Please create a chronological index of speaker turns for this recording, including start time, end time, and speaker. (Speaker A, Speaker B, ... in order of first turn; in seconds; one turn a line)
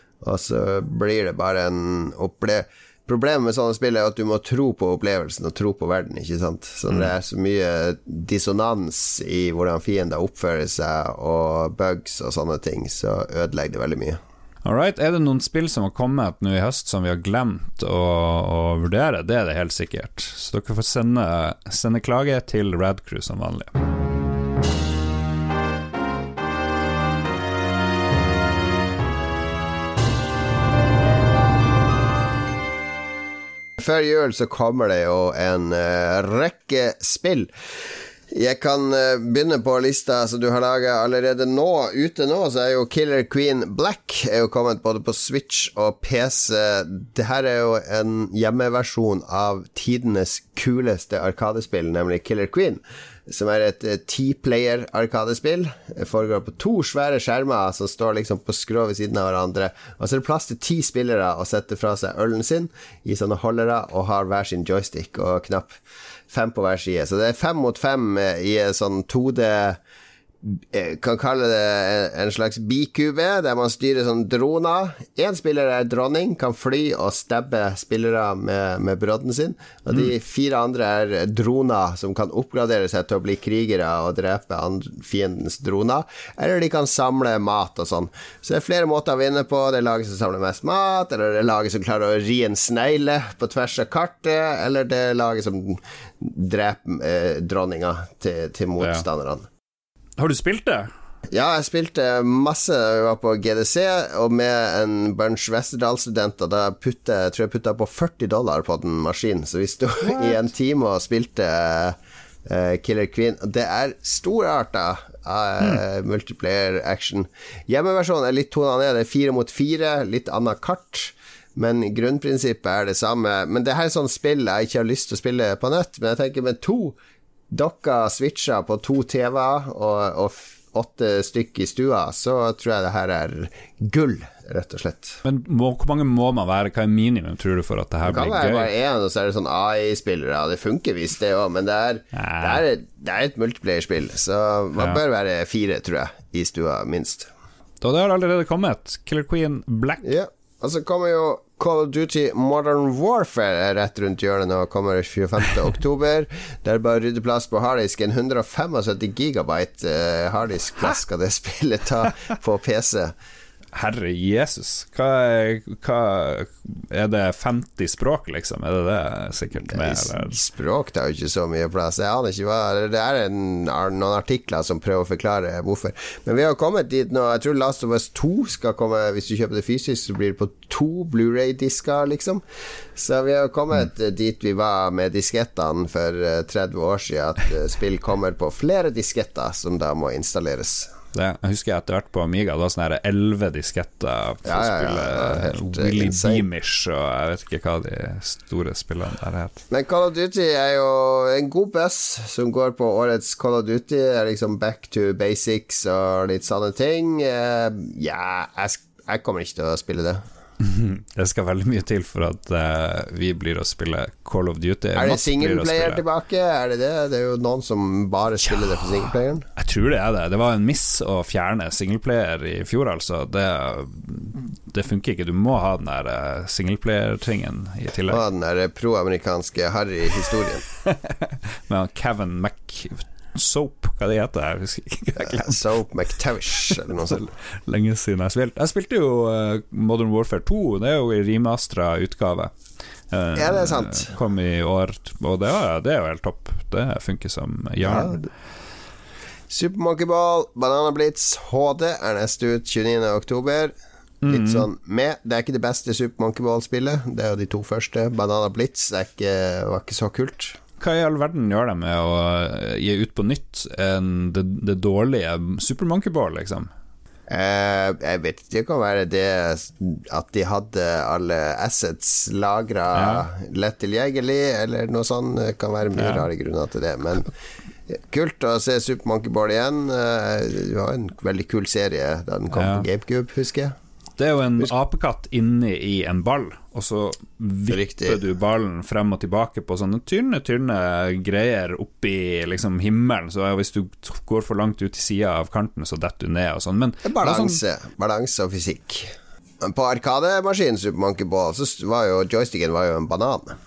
Speaker A: 0.2-14.2
Speaker B: 14.6-23.7
Speaker A: 33.8-37.5
Speaker A: 38.3-65.7
Speaker A: 66.3-69.8
Speaker A: 70.4-99.5
Speaker B: 98.8-99.0
Speaker B: 100.2-100.9
Speaker A: 101.3-127.0
Speaker B: 110.1-110.4
Speaker A: 127.5-135.2
Speaker B: 135.2-138.7
Speaker A: 138.1-147.3
Speaker B: 142.1-142.6
Speaker B: 147.8-150.0
Speaker A: 150.0-163.1
Speaker B: 163.7-170.4
Speaker A: 169.6-182.4
Speaker A: 183.0-190.9
Speaker B: 191.1-199.6
Speaker A: 194.4-196.4
Speaker A: 199.7-210.2
Speaker B: 210.6-216.0
Speaker A: 215.0-219.4
Speaker B: 218.4-228.2
Speaker A: 228.1-230.7
Speaker B: 230.8-235.7
Speaker A: 235.2-237.3
Speaker B: 236.6-242.5
Speaker B: 243.1-248.2
Speaker A: 243.3-244.2
Speaker A: 247.8-248.3
Speaker A: 249.5-253.7
Speaker B: 254.2-254.7
Speaker A: 254.3-260.6
Speaker B: 260.8-266.7
Speaker A: 267.3-277.3
Speaker B: 272.9-273.3
Speaker B: 275.9-276.3
Speaker A: 277.9-283.8
Speaker B: 282.5-282.9
Speaker B: 284.2-297.6
Speaker A: 287.7-288.2
Speaker A: 297.0-303.6